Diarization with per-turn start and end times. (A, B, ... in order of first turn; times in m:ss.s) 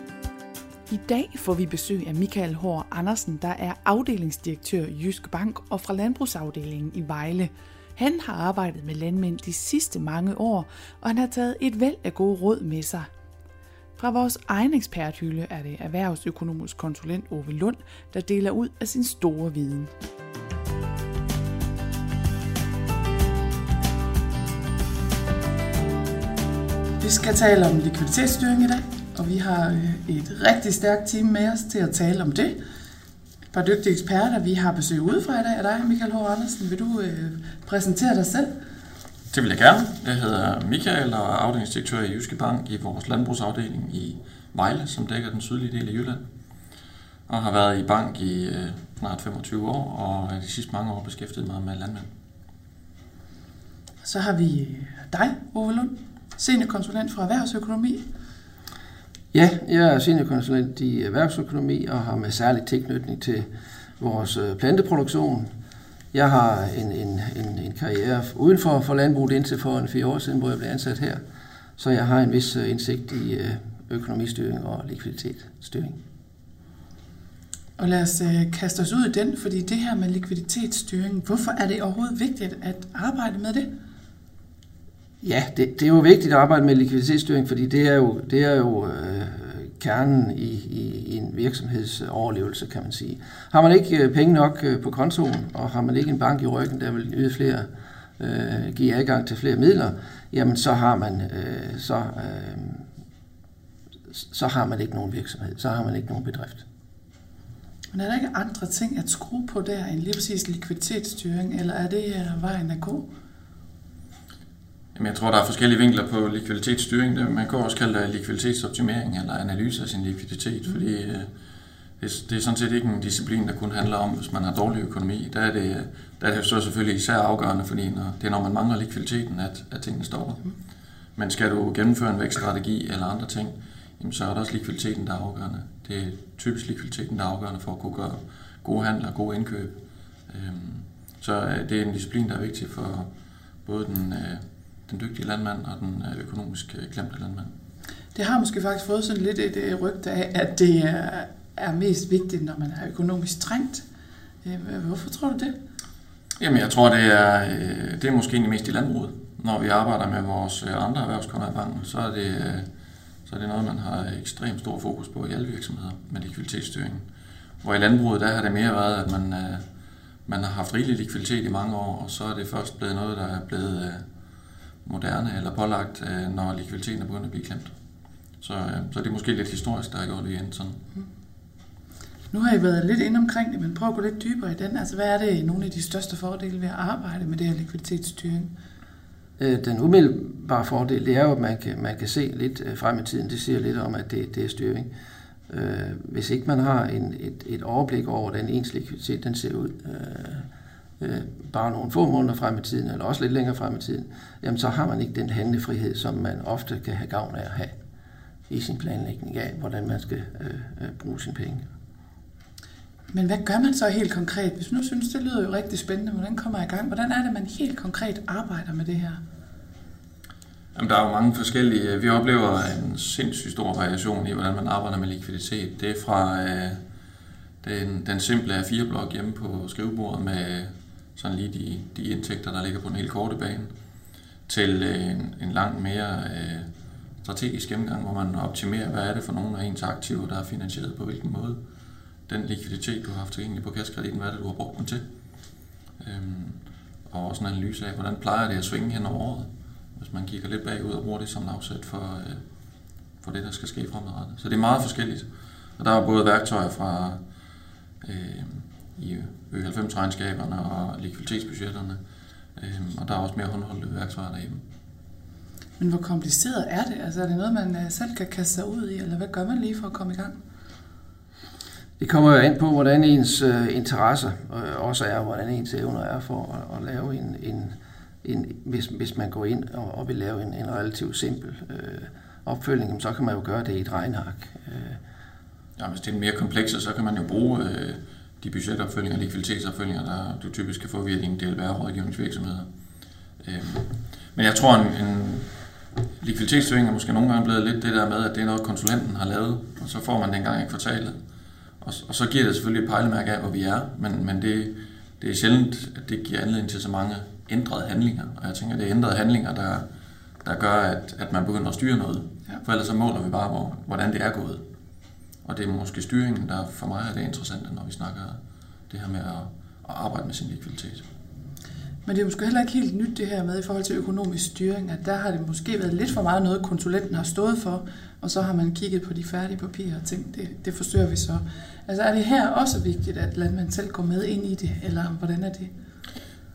0:00.9-0:13.1 A
0:14.0-0:19.9 A
0:27.0-0:32.6 A
0:33.5-0:38.5 A
0:39.3-0:46.2 B
0:47.3-0:52.1 B
0:54.0-0:58.0 A
0:59.3-1:03.5 C
1:04.0-1:05.5 C
1:06.1-1:11.2 C
1:11.8-1:16.0 C
1:17.8-1:23.7 A
1:25.2-1:37.7 C
1:38.2-1:42.8 C
1:44.1-1:46.6 C
1:47.9-1:53.1 A
1:54.9-2:01.3 B
2:02.0-2:10.5 B
2:11.2-2:19.8 B
2:20.3-2:23.1 B
2:23.6-2:27.5 B
2:28.1-2:33.8 A
2:34.4-2:35.5 A
2:36.4-2:42.7 B
2:43.2-2:47.0 B
2:47.6-2:49.6 B
2:50.2-2:54.0 B
2:54.8-2:57.7 B
2:58.4-3:00.8 B
3:02.3-3:08.5 A
3:09.4-3:14.9 C
3:15.5-3:20.4 C
3:21.0-3:27.8 C
3:28.5-3:31.7 C
3:33.1-3:39.2 A
3:40.7-3:46.8 B
3:47.6-3:53.7 B
3:54.5-3:56.7 B
3:57.2-4:01.6 B
4:02.3-4:05.0 B
4:06.0-4:12.4 B
4:13.2-4:15.3 B
4:15.8-4:17.2 B
4:18.0-4:22.0 B
4:22.6-4:24.6 B
4:25.8-4:30.4 A
4:32.0-4:45.0 C
4:45.8-4:52.7 B
4:53.4-4:55.5 B
4:56.2-5:01.2 B
5:01.8-5:09.8 B
5:10.4-5:14.6 B
5:15.4-5:21.0 B
5:22.0-5:35.7 A